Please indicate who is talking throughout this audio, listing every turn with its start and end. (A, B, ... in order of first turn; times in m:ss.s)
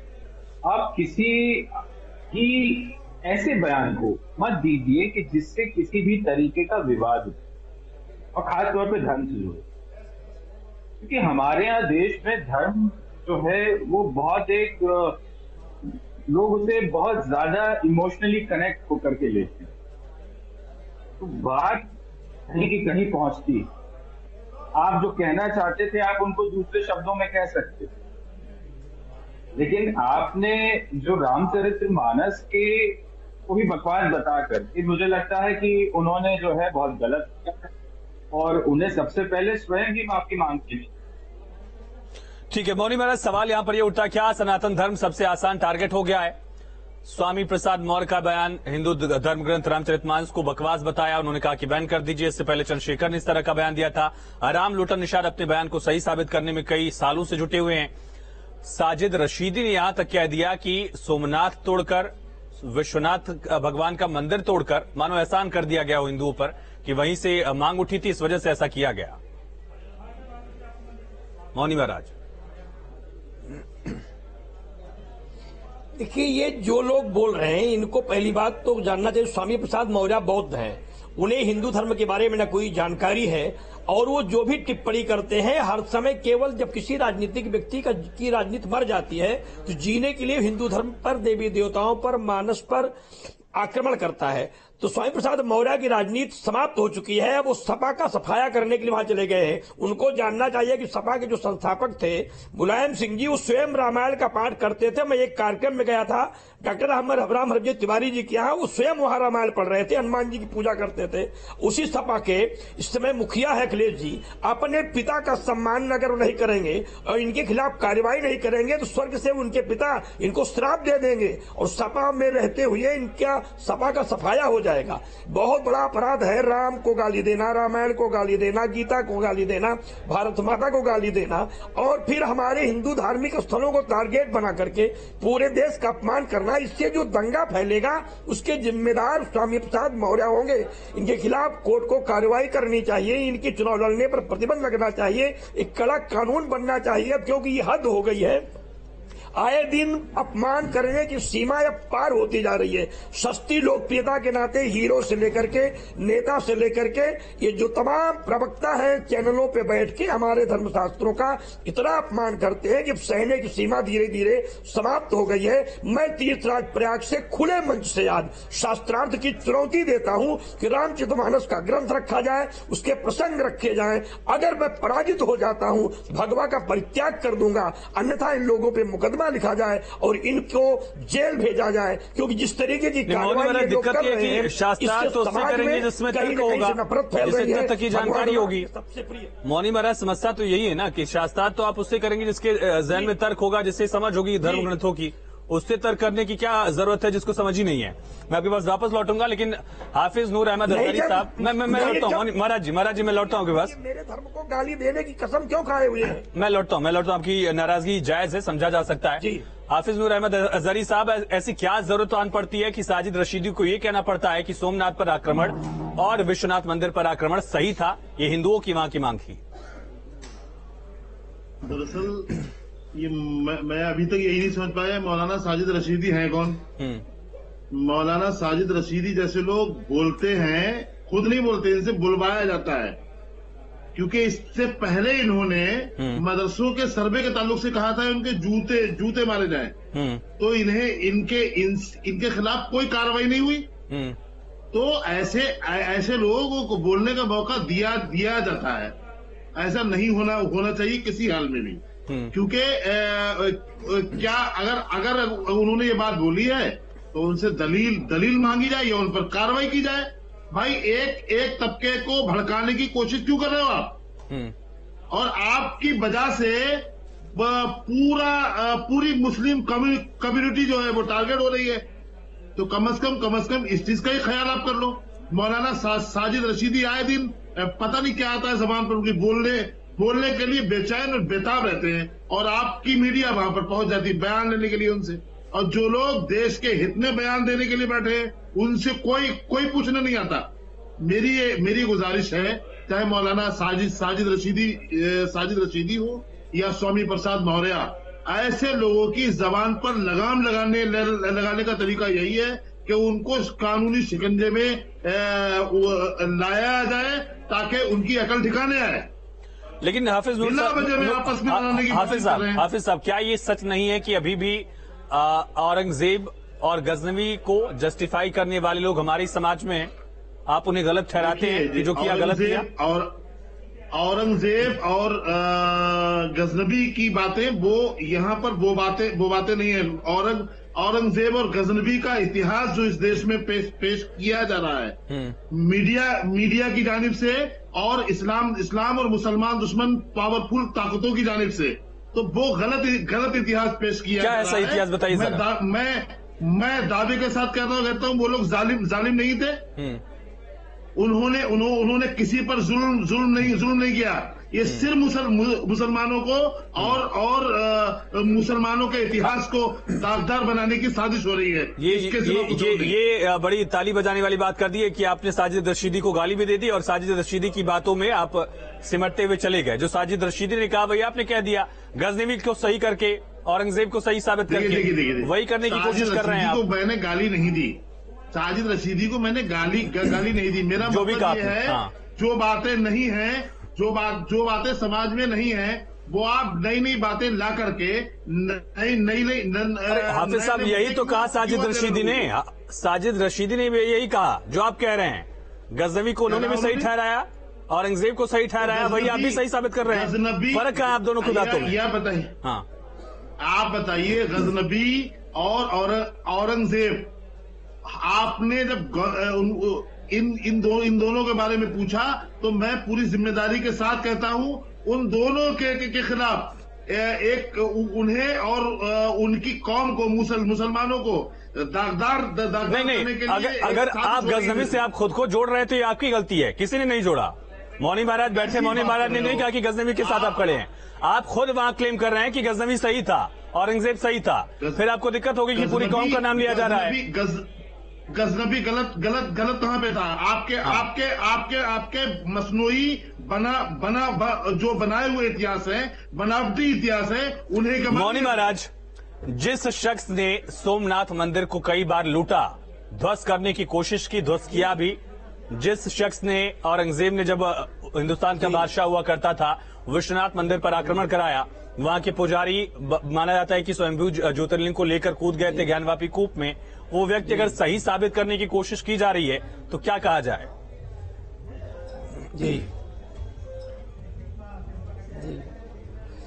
0:00.6-0:07.4 A
0:08.3-0:09.6 A
0:11.0-0:15.2 A
0:16.3-0:19.7 A
0:21.2-0:21.9 A
0:22.5-0:23.7 A
0:24.8-0:27.9 A
0:29.5-0:37.7 A
0:38.3-0:40.9 A
0:42.5-0:46.3 B
0:47.0-0:57.9 B
0:58.6-1:09.2 B
1:11.5-1:12.1 B
1:16.0-1:32.9 C
1:33.5-2:28.4 C
2:29.4-3:09.3 C
3:03.1-3:08.7 B
3:09.4-3:23.7 B
3:14.4-3:14.7 C
3:20.7-3:22.3 C
3:22.9-3:26.2 C
3:26.3-3:39.4 B
3:29.2-3:29.4 C
3:41.6-3:42.4 D
3:42.9-3:46.6 D
3:46.8-3:47.0 B
3:47.7-3:53.0 D
3:53.9-3:59.8 D
3:56.0-3:56.2 B
3:59.9-4:00.2 B
4:00.4-4:03.7 D
4:03.9-4:04.2 B
4:04.7-4:08.9 D
4:09.6-4:24.0 D
4:25.1-4:31.8 D
4:32.6-5:09.1 D
5:09.8-5:19.9 B
5:10.4-5:12.6 D
5:20.5-5:22.7 B
5:21.2-5:23.2 D
5:23.9-5:35.0 D
5:35.1-5:35.4 B
5:35.5-5:49.6 D
5:44.2-5:45.4 B
5:49.8-5:50.0 B
5:51.0-6:02.9 D
6:01.8-6:16.6 B
6:14.5-6:17.8 D
6:18.3-6:32.3 D
6:20.8-6:21.9 B
6:29.9-6:41.8 B
6:36.3-6:36.9 D
6:38.6-6:42.3 D
6:43.4-6:47.1 D
6:47.8-7:04.8 D
7:02.7-7:17.0 B
7:08.4-7:09.5 D
7:10.0-7:10.6 D
7:15.5-7:17.5 D
7:18.1-7:28.5 D
7:27.9-7:28.7 B
7:29.2-7:35.0 B
7:35.5-7:50.5 B
7:52.3-7:52.7 C
7:55.2-7:55.4 C